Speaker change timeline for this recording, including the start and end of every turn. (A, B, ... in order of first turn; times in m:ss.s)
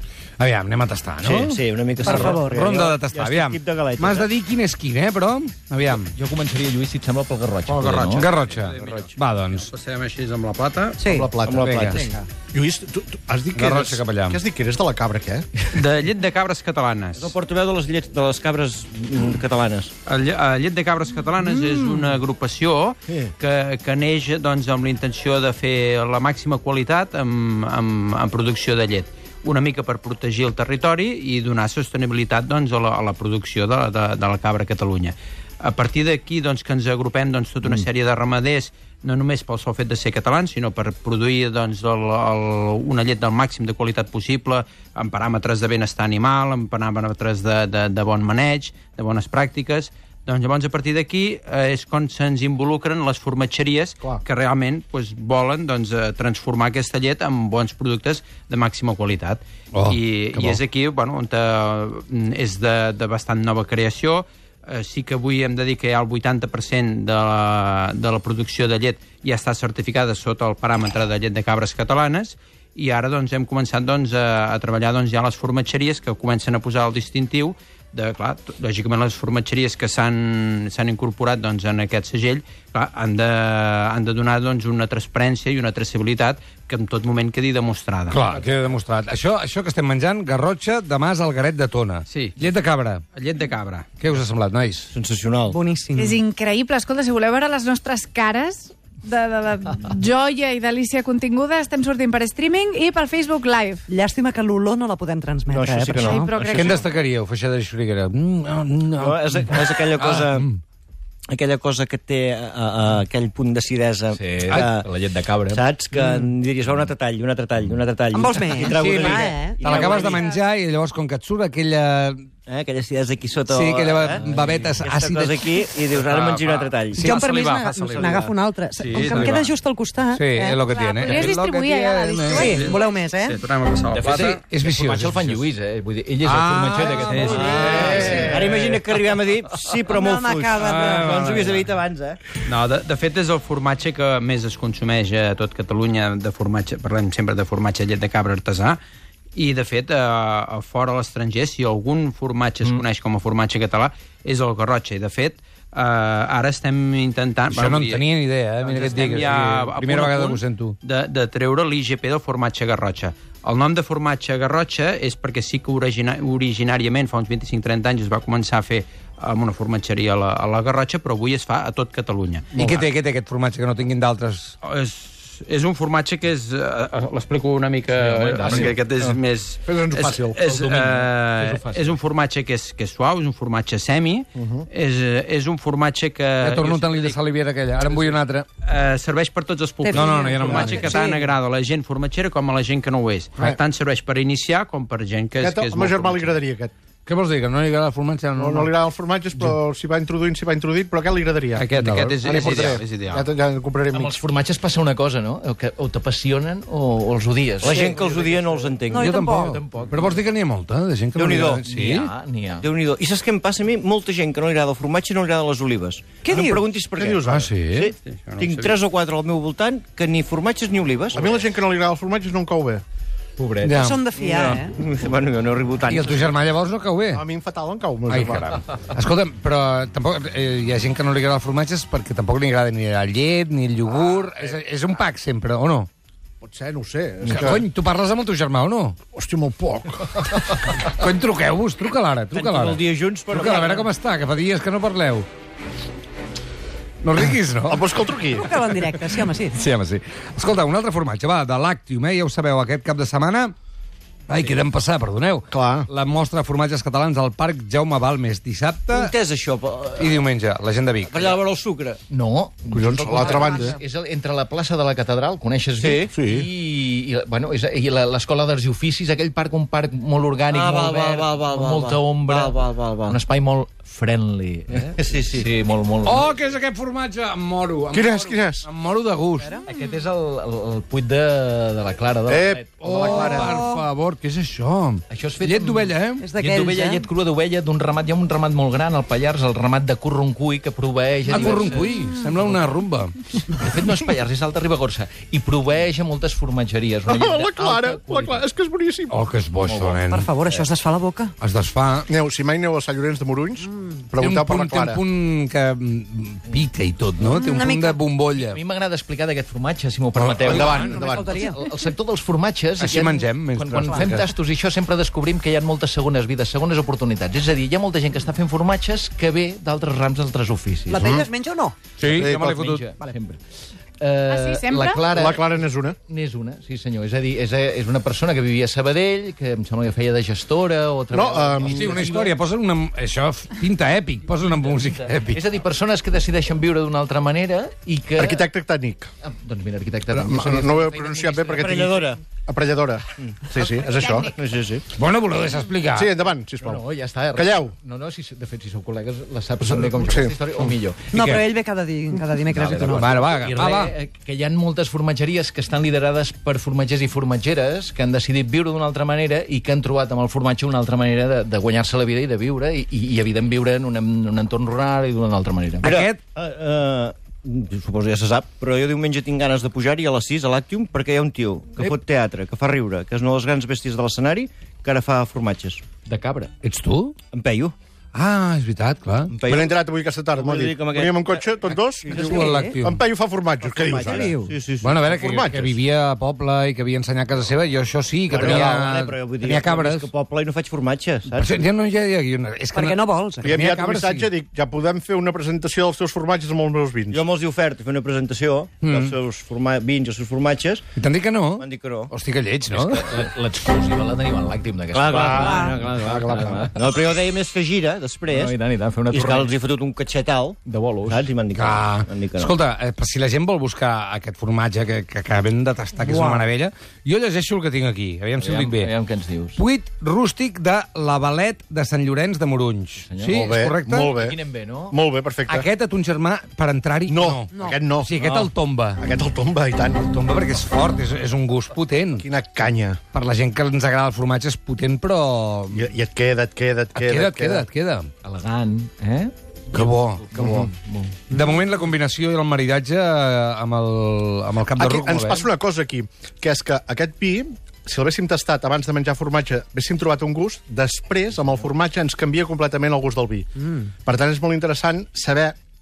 0:00.4-0:06.1 A
0:01.2-0:04.3 B
0:02.0-0:02.7 C
0:05.8-0:08.3 D
0:07.7-0:11.0 E
0:08.1-0:09.7 A
0:11.0-0:11.4 C
0:11.0-0:11.8 F
0:11.4-0:12.0 B
0:11.6-0:12.0 A
0:12.0-0:12.2 C
0:12.5-0:15.8 F
0:13.5-0:14.4 A
0:15.7-0:17.3 E
0:17.2-0:19.9 B
0:20.0-1:28.2 E
0:59.7-1:00.6 A
1:28.1-1:33.0 A
1:32.1-1:32.4 E
1:33.1-1:33.9 E
1:33.9-1:34.9 A
1:34.9-1:35.6 B
1:35.5-1:36.2 C
1:35.9-1:43.8 G
1:43.9-1:46.7 C
1:45.5-1:46.7 B
1:46.0-1:46.6 G
1:46.5-1:50.6 A
1:49.0-1:50.5 B
1:51.3-1:54.9 B
1:54.1-1:55.6 D
1:55.5-2:00.3 B
1:58.1-1:59.8 C
1:58.7-2:02.2 A
2:02.5-2:07.1 B
2:03.4-2:08.2 A
2:07.0-2:11.2 C
2:07.8-2:08.3 B
2:08.8-2:09.3 E
2:09.0-2:09.5 A
2:10.1-2:12.6 A
2:10.7-2:12.8 G
2:12.3-2:13.4 C
2:12.4-2:14.4 E
2:13.9-2:18.4 D
2:14.5-2:15.4 A
2:16.2-2:18.2 A
2:17.1-2:17.5 E
2:17.2-2:22.2 B
2:17.7-2:18.4 F
2:19.9-2:21.3 C
2:20.6-2:21.7 A
2:22.4-2:28.8 E
2:29.3-2:38.0 E
2:37.5-2:40.8 A
2:38.6-2:52.5 E
2:52.5-2:52.9 F
2:52.5-2:54.5 A
2:54.6-3:07.2 E
2:57.9-2:59.1 D
2:58.5-2:58.8 F
2:59.6-3:00.4 F
3:00.4-3:01.9 D
3:04.4-3:04.7 F
3:06.4-3:08.4 A
3:08.6-3:16.4 E
3:09.8-3:11.3 C
3:09.9-3:11.0 A
3:10.4-3:10.8 F
3:15.4-3:16.7 F
3:17.0-3:18.7 A
3:18.4-3:21.6 F
3:21.6-3:22.6 A
3:21.6-3:23.2 E
3:22.2-3:24.1 F
3:23.9-3:30.2 D
3:27.6-3:29.1 B
3:28.9-3:29.6 C
3:29.0-3:32.1 A
3:31.1-3:31.7 B
3:31.5-3:32.7 D
3:32.6-3:41.3 B
3:36.2-3:36.6 C
3:37.0-3:37.5 F
3:37.3-3:37.9 A
3:38.0-3:38.8 E
3:41.1-3:42.8 F
3:43.4-3:43.9 D
3:43.6-3:44.0 A
3:43.8-3:44.8 C
3:44.1-3:46.4 B
3:45.8-3:47.2 A
3:47.1-3:48.6 F
3:48.1-3:55.9 A
3:56.4-3:57.6 F
3:57.2-3:59.0 A
3:59.1-4:00.8 F
4:00.8-4:05.3 A
4:02.3-4:03.9 B
4:07.0-4:07.8 A
4:07.7-4:08.5 F
4:08.3-4:09.6 C
4:09.5-4:13.5 A
4:14.3-4:19.1 A
4:15.5-4:15.9 F
4:18.9-4:20.2 B
4:20.0-4:21.4 A
4:21.0-4:22.0 B
4:22.1-4:36.3 D
4:22.7-4:23.8 F
4:25.8-4:26.1 B
4:26.1-4:26.5 F
4:30.5-4:33.2 B
4:34.9-4:35.5 B
4:36.0-4:39.6 A
4:37.9-4:38.6 F
4:39.6-4:43.5 D
4:42.3-4:43.6 F
4:42.8-4:46.3 A
4:45.1-4:52.7 D
4:46.2-4:47.0 C
4:51.3-4:53.2 A
4:53.5-4:58.4 D
4:57.1-4:59.1 F
4:59.1-5:00.3 A
4:59.6-5:00.0 D
5:00.1-5:01.3 C
5:01.4-5:02.1 A
5:02.1-5:05.0 F
5:04.2-5:08.6 A
5:07.2-5:08.0 C
5:08.3-5:21.1 D
5:10.2-5:11.5 F
5:10.5-5:11.0 A
5:10.9-5:11.6 C
5:12.8-5:14.2 A
5:20.9-5:21.7 C
5:21.0-5:21.3 F
5:22.0-5:22.8 A
5:22.0-5:23.4 D
5:22.1-5:22.5 F
5:24.0-5:32.3 D
5:24.3-5:25.0 G
5:25.0-5:26.0 F
5:31.1-5:32.0 F
5:31.6-5:35.4 A
5:35.3-5:38.5 D
5:38.2-5:39.1 F
5:39.2-5:41.8 D
5:40.1-5:44.4 F
5:41.6-5:42.2 B
5:43.8-5:44.3 G
5:44.3-5:44.8 B
5:44.9-5:46.1 A
5:45.9-5:46.8 F
5:46.6-5:51.2 D
5:47.3-5:47.7 F
5:49.7-5:50.3 F
5:51.1-5:53.2 C
5:51.2-5:51.5 A
5:52.5-6:05.9 D
5:52.9-5:53.9 A
6:05.8-6:06.2 A
6:05.8-6:15.8 B
6:16.0-6:16.5 D
6:16.6-6:17.2 A
6:17.3-6:17.7 B
6:18.1-6:19.4 A
6:19.3-6:19.7 B
6:19.4-6:24.4 F
6:20.3-6:22.5 B
6:22.2-6:22.7 C
6:22.2-6:23.0 A
6:23.6-6:25.4 B
6:24.1-6:24.6 C
6:24.8-6:30.1 A
6:25.2-6:25.8 F
6:28.3-6:31.6 B
6:28.3-6:28.8 F
6:31.3-6:34.3 A
6:32.7-6:33.5 C
6:33.4-6:37.2 F
6:37.1-6:40.8 B
6:38.8-6:39.2 A
6:41.0-6:43.1 A
6:41.6-6:42.1 B
6:42.7-6:46.9 D
6:44.9-6:48.5 B
6:45.1-6:46.6 F
6:48.3-6:49.5 D
6:49.1-6:52.5 B
6:50.6-6:51.2 D
6:51.5-6:58.9 A
6:56.1-6:56.4 C
6:58.4-6:59.6 D
6:59.6-7:04.1 A
7:03.0-7:03.5 D
7:03.4-7:04.4 F
7:04.1-7:05.0 D
7:04.9-7:05.6 F
7:05.5-7:09.0 A
7:07.1-7:08.1 F
7:09.0-7:10.1 F
7:10.0-7:12.2 A
7:12.2-7:13.0 F
7:13.1-7:15.8 A
7:15.7-7:17.6 F
7:16.9-7:18.1 A
7:18.2-7:19.3 D
7:19.7-7:20.3 A
7:19.8-7:21.3 D
7:20.3-7:20.7 F
7:21.3-7:25.5 A
7:24.7-7:35.5 F